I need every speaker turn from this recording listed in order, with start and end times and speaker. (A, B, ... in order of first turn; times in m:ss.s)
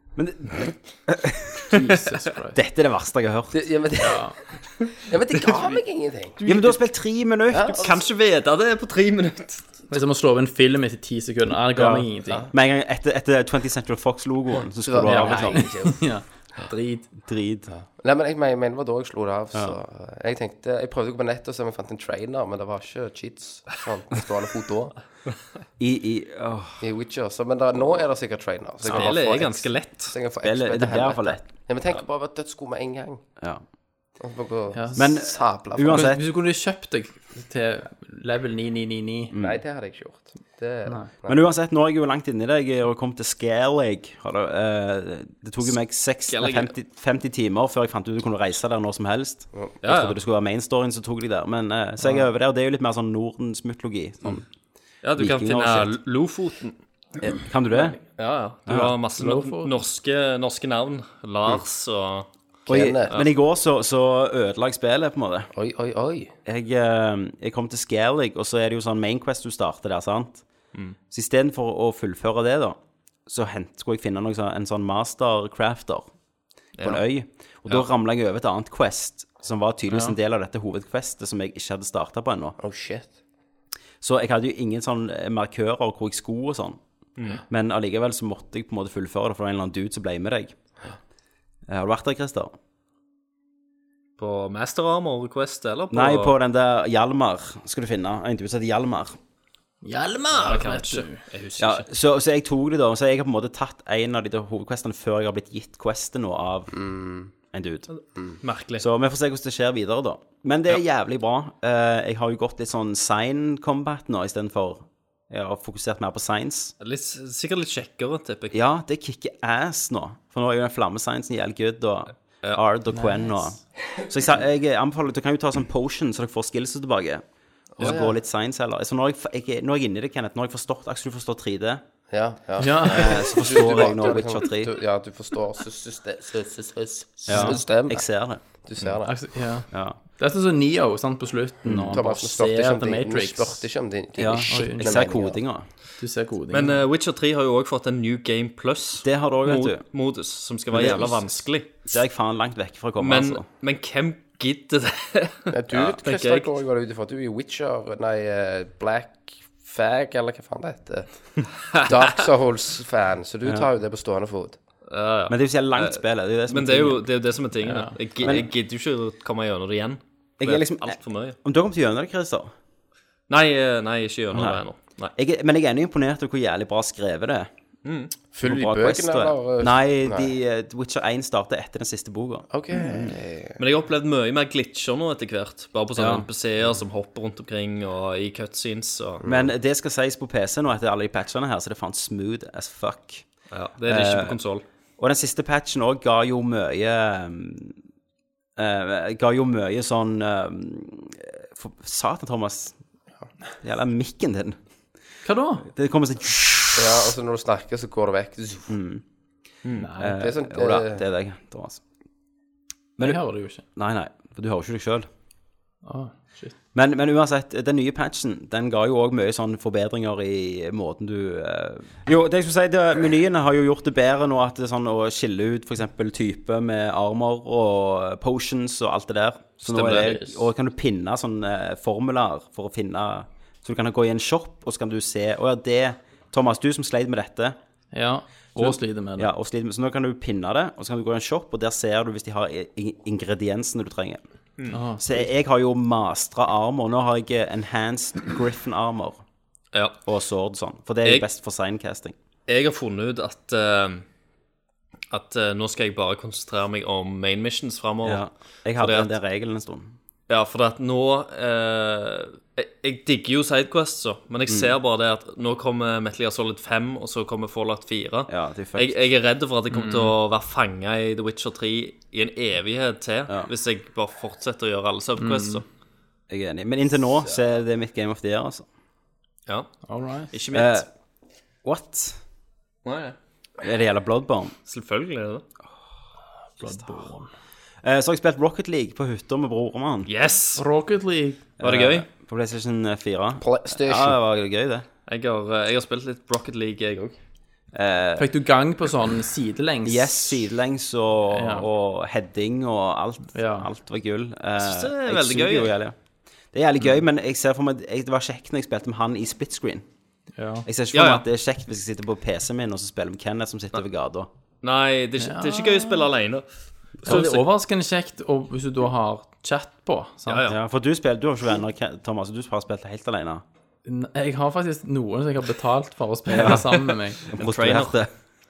0:00.2-0:02.0 A
0:01.7-0:02.6 B
0:02.5-0:03.6 A
0:03.5-0:04.4 C
0:04.0-0:04.4 B
0:05.0-0:06.4 C
0:06.4-0:06.8 D
0:06.4-0:07.8 A
0:07.5-0:08.0 C
0:07.8-0:09.9 D
0:09.9-0:12.5 B
0:11.8-0:15.7 A
0:14.8-0:16.0 C
0:15.0-0:17.1 B
0:17.2-0:17.7 A
0:17.7-0:25.0 C
0:25.8-0:26.8 A
0:26.8-0:33.2 C
0:28.8-0:30.2 D
0:30.4-0:31.5 A
0:34.2-0:36.1 C
0:34.7-0:35.1 B
0:35.0-0:36.2 A
0:35.8-0:39.3 B
0:39.3-0:39.6 A
0:39.4-0:41.4 C
0:40.9-0:41.1 B
0:41.3-0:54.4 A
0:46.3-0:46.7 D
0:49.8-0:50.2 D
0:52.0-0:52.3 B
0:55.0-0:56.8 D
0:55.2-0:55.9 A
0:57.2-0:58.0 A
0:57.7-1:02.3 D
0:58.7-0:59.0 A
0:59.2-0:59.7 B
1:02.7-1:03.1 C
1:02.7-1:05.5 A
1:05.5-1:06.3 C
1:06.5-1:10.4 A
1:11.1-1:16.1 A
1:16.8-1:22.6 A
1:19.9-1:20.2 B
1:22.6-1:23.1 C
1:24.0-1:26.8 A
1:27.5-1:30.6 A
1:31.7-1:32.5 A
1:34.2-1:36.3 D
1:35.9-1:39.2 A
1:39.8-1:41.3 B
1:40.3-1:41.9 D
1:41.6-1:46.8 A
1:46.7-1:47.3 C
1:47.5-1:47.9 A
1:47.9-1:48.8 D
1:48.8-1:56.7 A
1:56.8-1:58.6 D
1:58.5-2:07.2 A
2:02.9-2:03.6 B
2:07.8-2:08.2 C
2:07.8-2:11.8 A
2:12.1-2:19.1 C
2:12.6-2:13.6 B
2:12.8-2:14.7 A
2:17.3-2:18.4 A
2:17.3-2:17.6 B
2:19.0-2:23.7 B
2:19.7-2:20.0 A
2:21.6-2:22.0 A
2:21.8-2:25.4 C
2:24.2-2:25.7 A
2:24.5-2:25.2 B
2:26.0-2:26.8 B
2:26.5-2:31.9 D
2:29.0-2:29.8 A
2:30.7-2:33.4 A
2:33.0-2:36.5 D
2:35.5-2:44.6 C
2:44.9-2:51.4 D
2:45.3-2:47.0 A
2:47.6-2:48.0 B
2:48.2-2:48.5 A
2:50.4-2:52.5 A
2:53.3-2:55.1 D
2:54.3-2:54.6 A
2:55.2-2:57.5 A
2:57.8-2:58.1 D
2:58.3-3:00.3 C
2:58.4-3:03.1 A
3:02.5-3:03.6 C
3:03.6-3:09.2 D
3:06.0-3:06.2 A
3:09.2-3:09.5 C
3:09.2-3:13.2 A
3:13.5-3:14.6 D
3:13.9-3:14.4 A
3:15.0-3:17.8 A
3:18.6-3:22.8 A
3:23.6-3:24.6 A
3:25.2-3:25.7 B
3:25.7-3:27.1 A
3:26.8-3:28.7 C
3:28.7-3:29.0 A
3:29.8-3:30.2 B
3:30.0-3:31.8 A
3:30.1-3:31.0 C
3:33.0-3:35.1 A
3:33.0-3:33.6 B
3:35.8-3:36.6 B
3:36.7-3:57.6 A
3:49.7-3:50.1 D
3:49.7-3:50.5 B
3:57.9-3:59.3 B
3:58.6-4:04.2 A
4:04.7-4:05.2 B
4:05.0-4:09.2 A
4:10.1-4:12.2 A
4:12.5-4:14.0 D
4:15.1-4:18.2 D
4:18.0-4:19.9 A
4:18.8-4:19.1 D
4:20.3-4:35.6 D
4:24.5-4:24.7 A
4:28.3-4:29.0 A
4:29.7-4:30.2 B
4:35.2-4:35.6 B
4:36.3-4:38.7 A
4:39.9-4:40.4 B
4:40.3-4:40.9 D
4:40.5-4:40.9 A
4:41.6-4:42.2 A
4:42.8-4:43.2 D
4:43.6-4:44.6 A
4:44.7-4:45.4 D
4:46.6-4:47.3 B
4:46.6-4:47.0 A
4:47.8-4:50.1 A
4:50.1-4:50.7 D
4:50.6-4:51.5 B
4:51.6-4:54.9 A
4:51.6-4:52.1 D
4:53.4-4:54.2 C
4:55.1-4:57.2 D
4:57.7-4:58.3 A
4:58.2-5:00.4 B
4:59.8-5:06.0 A
5:01.3-5:01.7 B
5:03.3-5:03.7 B
5:04.6-5:05.7 D
5:06.5-5:09.9 A
5:10.4-5:10.7 B
5:10.6-5:14.3 A
5:10.9-5:11.2 D
5:14.6-5:16.5 D
5:15.2-5:16.1 B
5:17.0-5:17.4 D
5:17.0-5:20.5 B
5:17.0-5:17.4 A
5:20.2-5:20.6 D
5:20.5-5:23.4 A
5:23.8-5:27.3 B
5:26.3-5:28.1 A
5:27.4-5:28.0 D